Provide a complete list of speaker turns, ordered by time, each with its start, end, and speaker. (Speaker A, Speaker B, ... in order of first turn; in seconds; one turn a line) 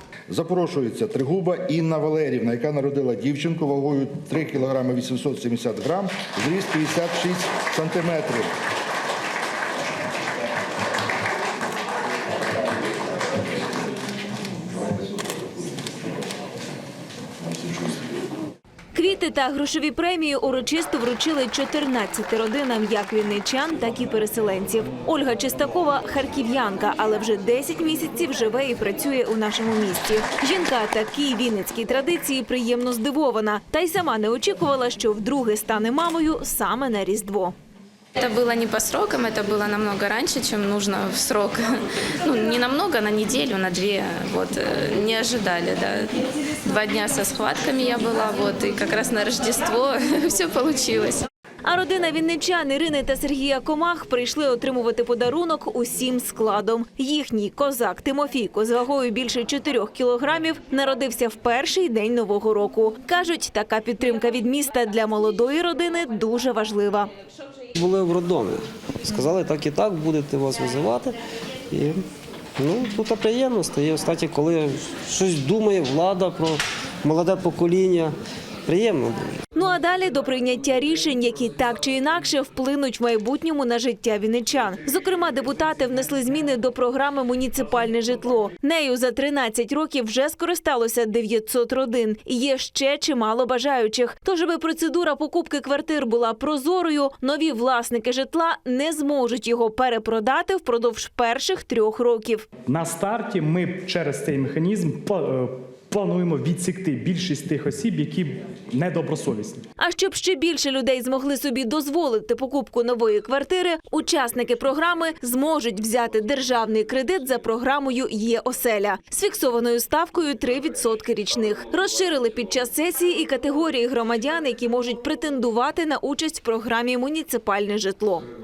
Speaker A: 0.3-8.5
Speaker B: 18.9-37.5
Speaker C: 38.2-51.3
Speaker B: 51.6-67.1
Speaker D: 67.7-71.2
Speaker D: 71.7-72.0
Speaker D: 72.6-79.3
Speaker B: 79.5-102.5
Speaker E: 102.7-109.6
Speaker B: 109.8-128.3